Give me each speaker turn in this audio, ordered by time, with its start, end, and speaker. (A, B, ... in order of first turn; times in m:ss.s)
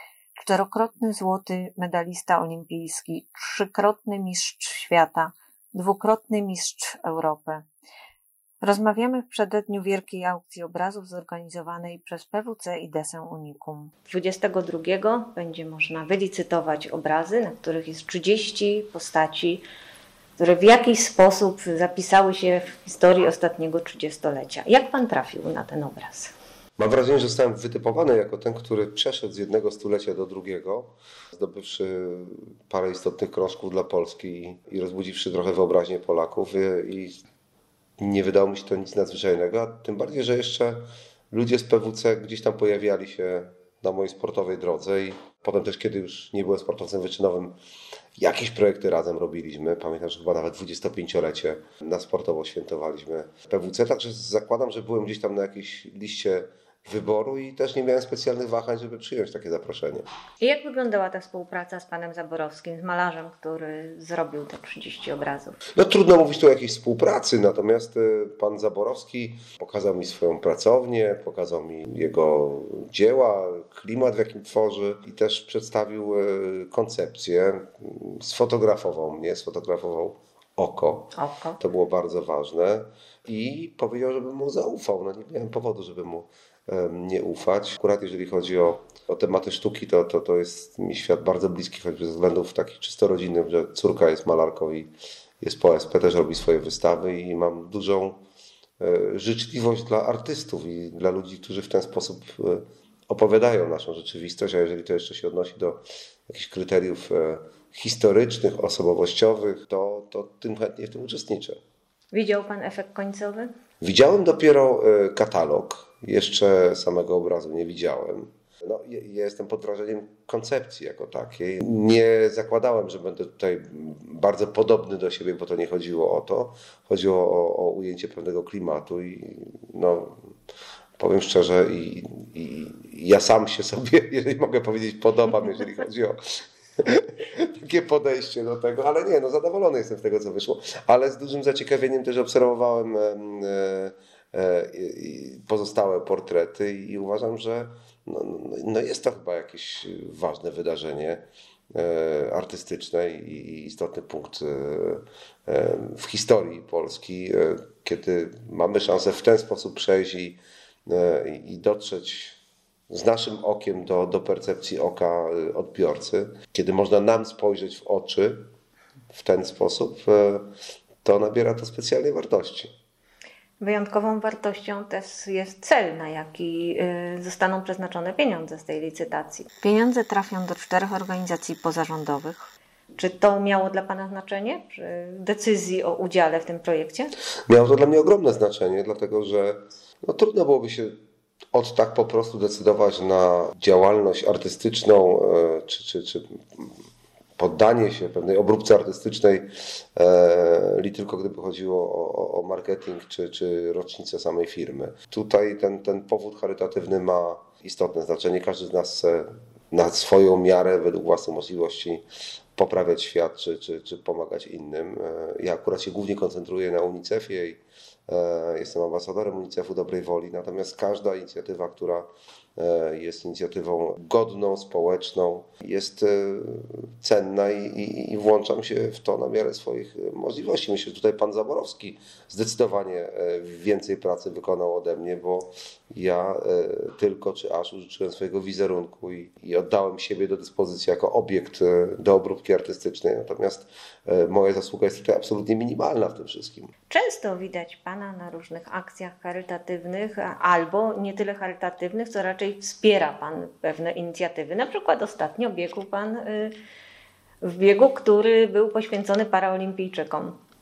0:00.4-0:07.7 A
0:08.6-0:19.6 A
0:20.4-0:26.3 A
0:26.8-0:37.2 B
0:38.0-0:47.6 B
0:48.2-1:00.1 B
1:00.4-1:05.6 A
1:05.8-1:38.2 B
1:21.2-1:21.6 A
1:38.8-1:51.6 B
1:52.1-1:53.5 A
1:53.8-2:10.3 B
2:11.0-2:42.4 B
2:42.9-2:48.5 B
2:49.1-2:50.5 B
2:51.0-2:52.7 B
2:53.6-3:07.1 A
3:07.5-3:11.0 B
3:11.5-3:16.8 B
3:17.4-3:32.0 B
3:32.6-4:06.7 B
4:06.9-4:16.5 A
4:17.4-4:20.4 A